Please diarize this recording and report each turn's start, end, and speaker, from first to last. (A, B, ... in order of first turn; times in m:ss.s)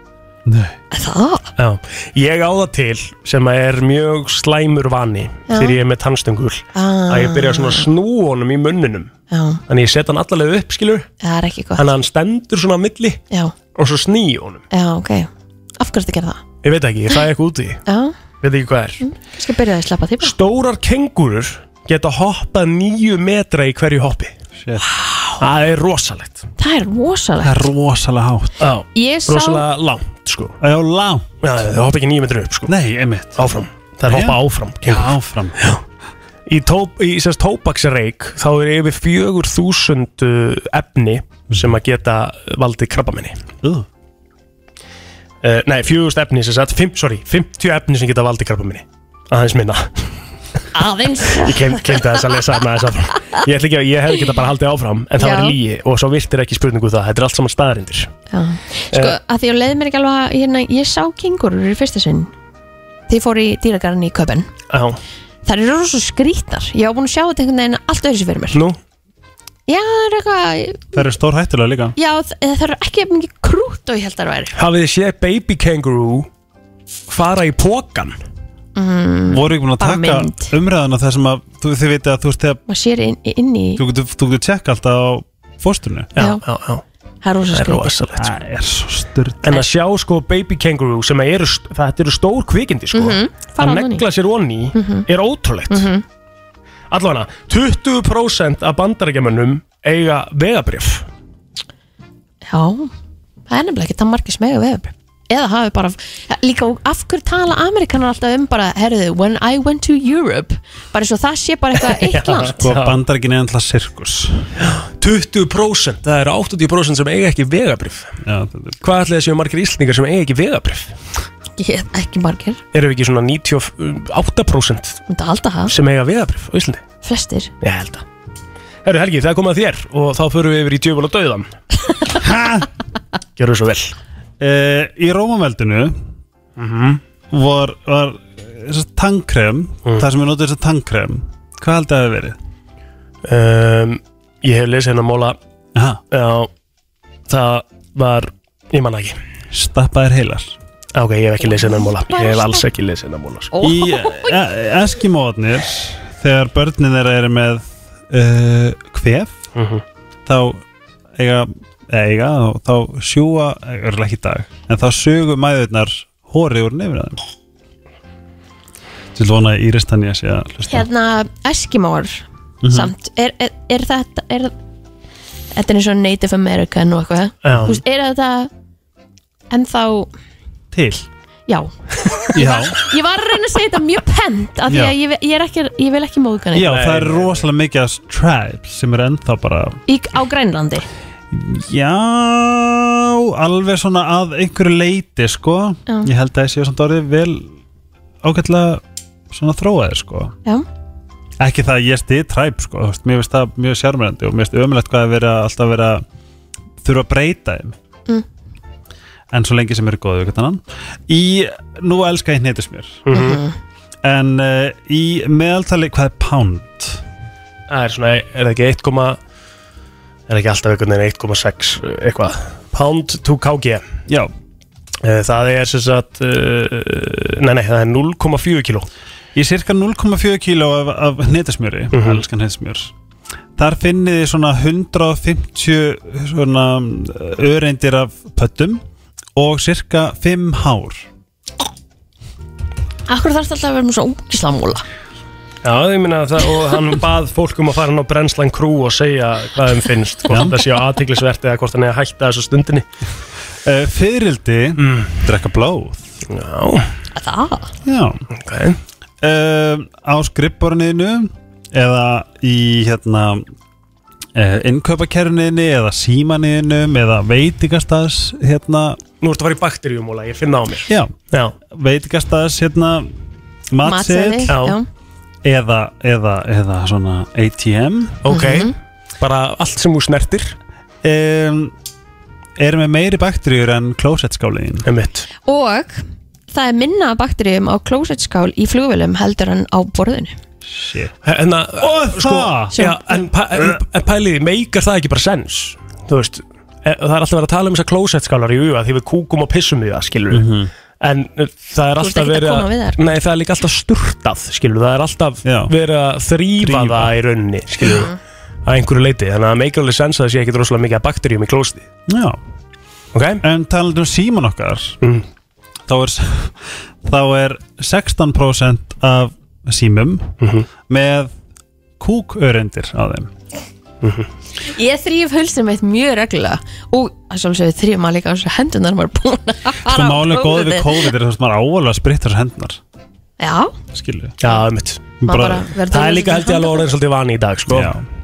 0:00.5-0:00.7 A
0:00.9-0:01.5 B
0:01.6-0:09.1 C
0:05.5-0:05.8 B
0:06.7-0:07.9 B
0:09.3-0:09.6 B
0:09.7-0:11.1 C
0:11.2-0:11.9 B
0:11.8-0:13.2 C
0:13.7-0:14.6 C
0:14.7-0:16.4 B
0:16.6-0:17.8 C
0:17.9-0:18.2 B
0:18.4-0:19.0 C
0:19.0-0:20.3 B
0:20.2-0:24.4 C
0:24.6-0:24.9 A
0:24.8-0:25.4 B
0:25.4-0:26.4 C
0:26.6-0:27.6 B
0:27.4-0:28.7 A
0:28.6-0:30.6 C
0:28.9-0:29.6 B
0:30.6-0:31.2 A
0:31.4-0:32.7 C
0:32.7-0:33.5 A
0:33.4-0:35.8 C
0:34.1-0:35.8 A
0:36.5-0:43.4 C
0:45.4-0:50.2 C
0:50.7-0:52.2 B
0:51.4-0:58.1 C
0:55.2-0:55.6 B
0:58.3-1:02.3 B
0:58.9-0:59.2 C
1:03.1-1:04.5 B
1:04.7-1:05.0 C
1:05.4-1:08.6 B
1:08.5-1:08.8 C
1:09.7-1:11.0 B
1:10.9-1:11.9 A
1:12.0-1:14.6 B
1:14.6-1:16.3 C
1:17.1-1:18.2 C
1:18.8-1:20.5 B
1:19.3-1:22.6 A
1:22.7-1:23.8 B
1:23.8-1:26.1 A
1:26.2-1:26.8 C
1:26.2-1:26.4 B
1:27.2-1:28.0 B
1:27.5-1:28.3 C
1:28.2-1:29.4 A
1:29.4-1:35.9 C
1:32.9-1:34.0 B
1:34.7-1:35.1 B
1:35.7-1:36.0 B
1:36.9-1:41.1 C
1:42.4-1:42.9 B
1:43.5-1:52.7 B
1:51.9-1:53.0 C
1:52.6-1:54.5 A
1:54.6-1:58.2 C
1:58.2-1:58.8 A
1:58.8-2:01.0 C
2:01.6-2:02.6 B
2:02.7-2:05.0 C
2:05.1-2:05.7 B
2:05.7-2:06.8 C
2:07.0-2:07.5 B
2:07.6-2:08.0 C
2:08.8-2:11.5 C
2:12.2-2:12.7 A
2:13.4-2:14.0 C
2:14.4-2:16.0 A
2:16.6-2:22.4 A
2:23.2-2:25.4 C
2:26.1-2:26.5 C
2:27.3-2:29.2 C
2:29.5-2:30.6 A
2:30.9-2:33.5 C
2:31.4-2:32.6 B
2:33.5-2:34.4 B
2:33.6-2:39.4 A
2:39.6-2:39.8 C
2:40.3-2:40.6 A
2:41.2-2:47.2 A
2:49.2-2:50.9 A
2:50.7-2:54.5 B
2:52.6-2:52.9 A
2:55.5-2:58.5 B
2:57.4-2:57.8 C
2:59.5-3:00.1 B
3:00.7-3:01.1 A
3:02.2-3:06.7 B
3:02.3-3:02.8 A
3:04.7-3:05.0 A
3:06.5-3:09.8 A
3:06.6-3:07.4 C
3:09.9-3:10.9 B
3:11.3-3:17.5 A
3:18.2-3:20.3 A
3:21.4-3:26.0 A
3:26.8-3:27.8 A
3:29.3-3:33.0 A
3:33.1-3:33.4 C
3:33.1-3:33.6 B
3:34.0-3:37.0 A
3:37.7-3:39.2 C
3:40.3-3:43.8 C
3:45.0-3:48.9 C
3:49.4-3:52.9 A
3:51.9-3:52.2 C
3:53.6-3:58.8 A
3:59.4-4:01.1 A
4:03.1-4:04.8 B
4:05.6-4:12.9 C
4:10.3-4:10.6 A
4:13.7-4:16.1 A
4:14.8-4:15.1 C
4:16.3-4:16.9 C
4:17.2-4:17.7 B
4:17.9-4:18.2 A
4:18.3-4:18.8 C
4:19.2-4:23.4 A
4:24.4-4:29.0 A
4:29.2-4:31.6 C
4:30.9-4:31.1 A
4:31.7-4:33.1 A
4:33.7-4:34.6 A
4:33.8-4:34.9 B
4:34.5-4:34.8 C
4:35.4-4:38.2 A
4:38.2-4:40.6 C
4:38.3-4:38.7 B
4:41.0-4:41.7 A
4:42.6-4:44.9 A
4:44.8-4:45.3 C
4:45.4-4:50.4 B
4:50.7-4:51.1 A
4:51.2-5:00.4 C
4:51.8-4:52.8 A
4:52.7-4:53.2 B
5:00.3-5:00.7 A
5:01.0-5:08.1 C
5:02.0-5:03.1 B
5:05.4-5:05.7 A
5:06.6-5:07.1 A
5:08.6-5:11.9 C
5:12.1-5:12.4 A
5:13.1-5:13.4 C
5:13.4-5:15.0 A
5:15.9-5:20.3 A
5:20.4-5:20.7 C
5:20.9-5:21.3 A
5:22.0-5:23.3 A
5:24.0-5:24.3 C
5:24.7-5:31.1 B
5:29.8-5:32.8 A
5:33.4-5:33.7 B
5:33.9-5:34.4 A
5:34.4-5:37.9 C
5:35.2-5:36.9 B
5:35.3-5:35.7 A
5:37.7-5:38.0 A